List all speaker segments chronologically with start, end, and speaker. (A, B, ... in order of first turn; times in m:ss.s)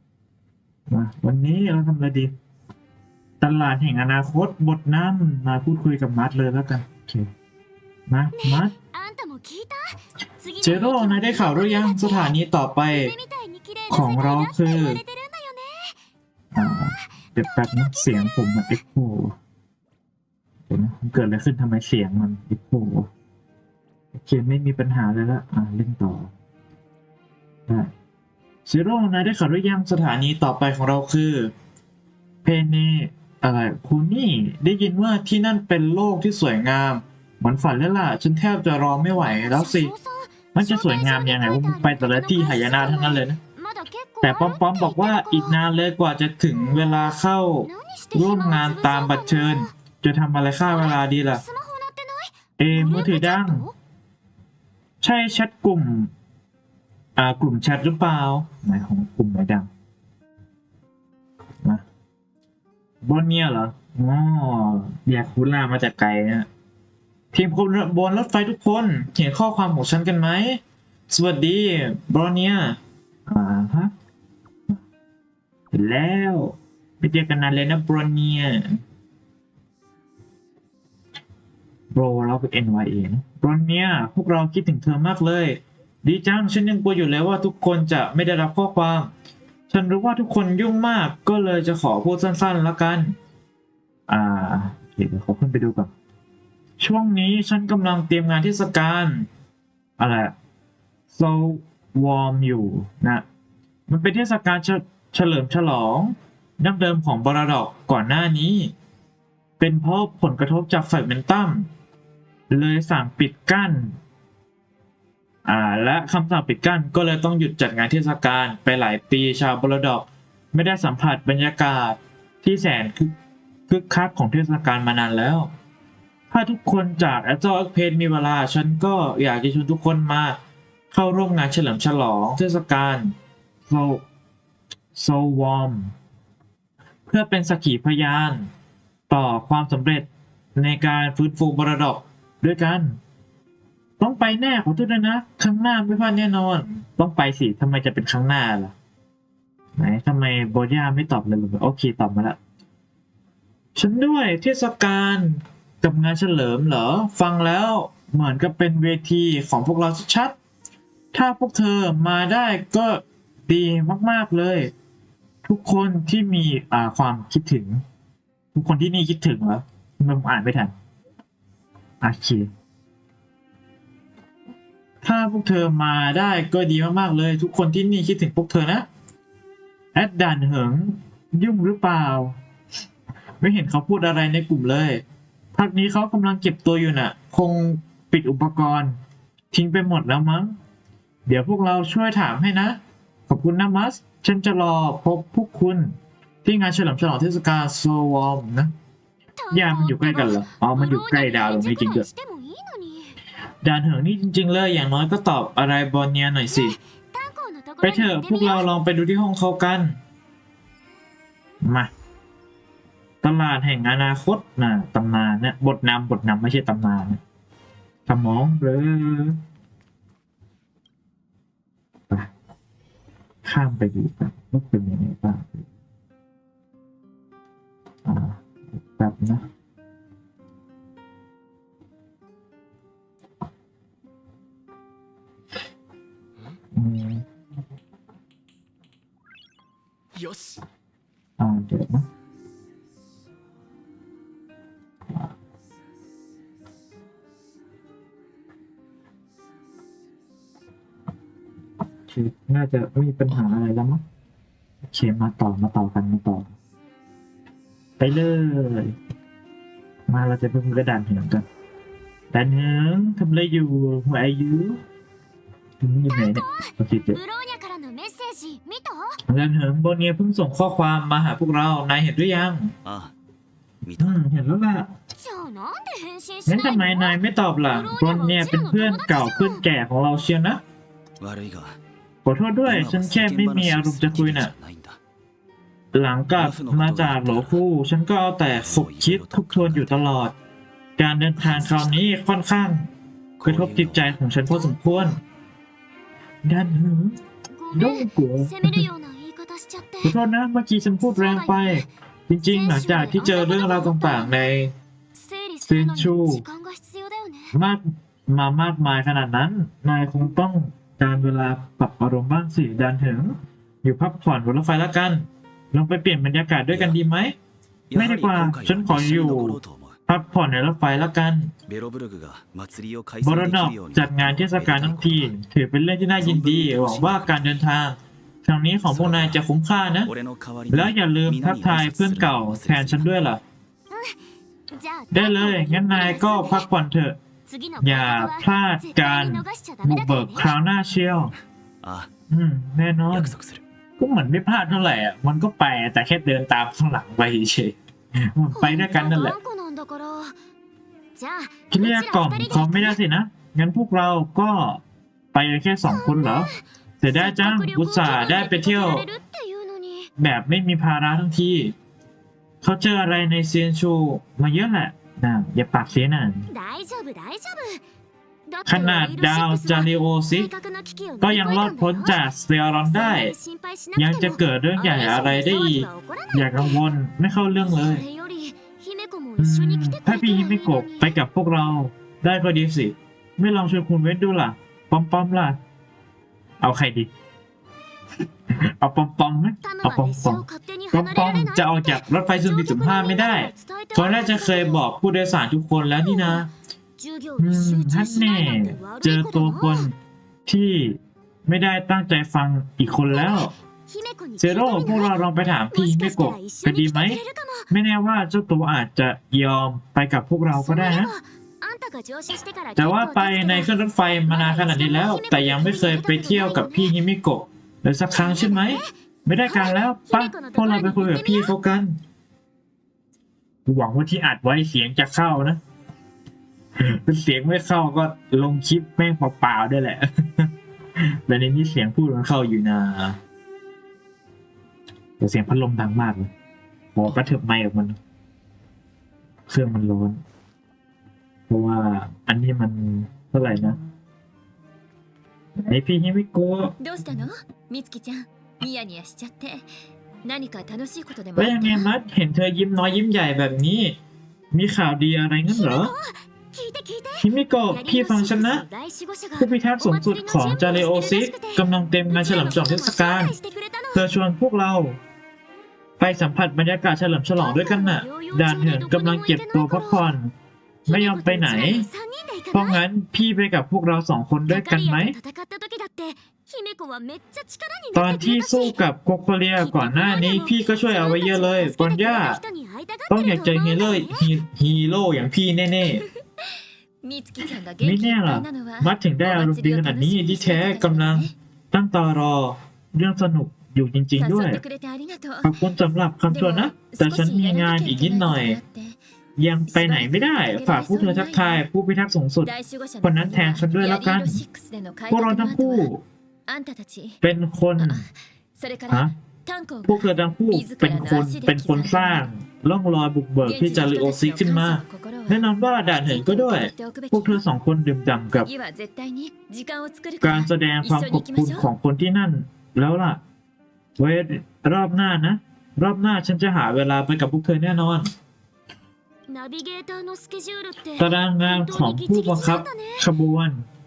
0:00.9-0:02.3 A
0:03.4-0:07.3 A
0:08.1-0:08.7 A
0:08.3-0:12.4 B
0:10.6-0:13.1 A
0:12.9-0:16.0 B
0:13.9-0:15.0 A
0:16.5-0:19.3 A
0:17.4-0:18.8 B
0:20.7-0:23.1 A
0:24.1-0:26.3 A
0:28.7-0:31.5 A
0:32.4-0:39.9 A
0:39.1-0:45.6 B
0:40.5-0:43.4 A
0:44.2-0:51.4 A
0:46.5-0:49.7 B
0:50.6-0:53.7 B
0:52.6-0:53.6 A
0:55.0-0:56.1 A
0:57.2-0:59.7 A
1:03.0-1:06.5 A
1:07.3-1:13.9 A
1:15.7-1:18.8 A
1:21.9-1:29.1 A
1:29.7-1:33.1 A
1:34.1-1:35.9 A
1:36.8-1:39.3 A
1:40.0-1:40.3 A
1:41.1-1:43.2 A
1:43.9-1:48.7 A
1:49.6-1:51.7 A
1:52.5-1:54.0 A
1:55.4-2:03.1 A
2:03.7-2:05.5 A
2:06.3-2:10.4 A
2:10.9-2:13.1 A
2:13.7-2:14.0 A
2:14.9-2:15.9 A
2:17.1-2:18.5 A
2:19.1-2:23.0 A
2:24.0-2:28.7 A
2:29.8-2:32.4 A
2:33.8-2:40.3 A
2:41.1-2:44.7 A
2:45.4-2:47.8 A
2:48.5-2:50.7 A
2:52.0-2:52.5 A
2:55.0-2:58.8 A
2:59.9-3:02.4 A
3:03.4-3:05.0 A
3:05.5-3:09.0 A
3:09.5-3:10.6 A
3:11.2-3:18.7 A
3:19.4-3:23.2 B
3:19.5-3:22.0 A
3:23.6-3:26.7 A
3:26.5-3:28.7 B
3:27.8-3:30.0 A
3:31.6-3:31.9 A
3:33.2-3:37.2 A
3:38.1-3:39.4 A
3:43.4-3:45.6 A
3:48.0-3:49.4 A
3:56.7-3:57.2 A
4:01.4-4:02.0 A
4:12.1-4:14.0 A
4:14.9-4:16.5 A
4:18.0-4:19.0 A
4:20.1-4:21.4 A
4:22.3-4:24.8 A
4:25.8-4:27.2 A
4:26.1-4:29.2 B
4:29.3-4:32.7 A
4:32.8-4:33.1 C
4:33.8-4:34.2 C
4:34.0-4:34.9 A
4:35.2-4:39.6 B
4:36.5-4:40.6 A
4:41.2-4:41.8 C
4:42.2-4:44.5 A
4:42.6-4:45.0 C
4:45.9-4:50.3 A
4:46.4-4:47.6 C
4:48.5-4:50.0 C
4:51.0-4:52.9 A
4:51.4-4:52.0 C
4:53.4-4:54.2 C
4:53.4-4:55.2 A
4:54.5-4:55.1 B
4:56.4-4:57.2 A
4:57.5-5:00.2 B
4:57.7-4:58.9 A
5:00.0-5:04.7 A
5:01.0-5:01.8 B
5:02.4-5:04.6 B
5:05.1-5:07.5 B
5:05.7-5:06.4 A
5:07.5-5:17.3 A
5:16.7-5:17.0 C
5:17.9-5:20.0 C
5:17.9-5:21.5 A
5:21.7-5:25.4 C
5:23.2-5:30.1 A
5:26.2-5:27.4 C
5:28.9-5:29.4 C
5:30.1-5:33.1 C
5:30.7-5:33.4 A
5:33.9-5:34.2 B
5:34.7-5:36.7 B
5:35.1-5:37.2 A
5:37.5-5:40.6 B
5:37.8-5:41.3 A
5:41.8-5:42.1 C
5:42.3-5:43.4 A
5:43.1-5:43.6 C
5:44.0-5:49.4 A
5:48.5-5:50.3 B
5:51.2-5:53.0 B
5:51.7-5:54.8 A
5:55.3-5:59.1 A
5:55.8-6:00.1 B
6:00.2-6:01.7 A
6:02.6-6:06.5 A
6:06.5-6:07.8 B
6:08.5-6:12.2 B
6:08.6-6:10.5 A
6:11.2-6:13.3 A
6:12.8-6:16.8 B
6:14.0-6:18.0 A
6:17.6-6:21.1 B
6:19.4-6:25.6 A
6:26.6-6:27.1 A
6:28.5-6:36.5 A
6:29.6-6:34.8 B
6:35.9-6:36.5 B
6:37.0-6:39.9 B
6:37.4-6:39.9 A
6:40.4-6:43.5 A
6:43.1-6:47.7 B
6:44.4-6:51.1 A
6:50.5-6:57.0 B
6:52.8-7:02.0 A
6:58.1-6:58.9 B
6:59.4-7:01.5 B
7:03.6-7:05.6 A
7:06.8-7:13.2 A
7:15.2-7:16.3 A
7:16.9-7:18.0 A
7:19.5-7:20.2 A
7:21.5-7:23.8 A
7:25.6-7:26.8 A
7:26.8-7:29.7 D
7:30.2-7:31.9 D
7:31.4-7:34.0 A
7:34.5-7:35.9 A
7:35.5-7:44.1 B
7:37.2-7:38.6 A
7:39.4-7:43.3 A
7:43.9-7:45.0 A
7:46.0-7:50.3 A
7:47.4-7:50.1 B
7:50.9-7:52.8 B
7:50.9-7:51.9 A
7:52.5-7:55.2 A
7:54.5-7:58.8 B
7:57.9-8:02.4 A
7:59.6-8:04.3 B
8:03.1-8:06.0 A
8:07.0-8:11.3 D
8:07.8-8:14.6 A
8:14.2-8:15.5 D
8:15.4-8:18.6 A
8:16.3-8:19.0 D
8:19.4-8:24.4 A
8:19.7-8:21.6 D
8:22.4-8:25.9 D
8:25.1-8:26.0 A
8:26.5-8:27.2 D
8:27.2-8:28.0 A
8:27.8-8:32.3 D
8:29.8-8:38.5 A
8:33.4-8:37.4 D
8:38.4-8:41.7 D
8:40.2-8:43.2 A
8:44.0-8:48.1 A
8:49.3-8:53.1 B
8:51.0-8:53.6 A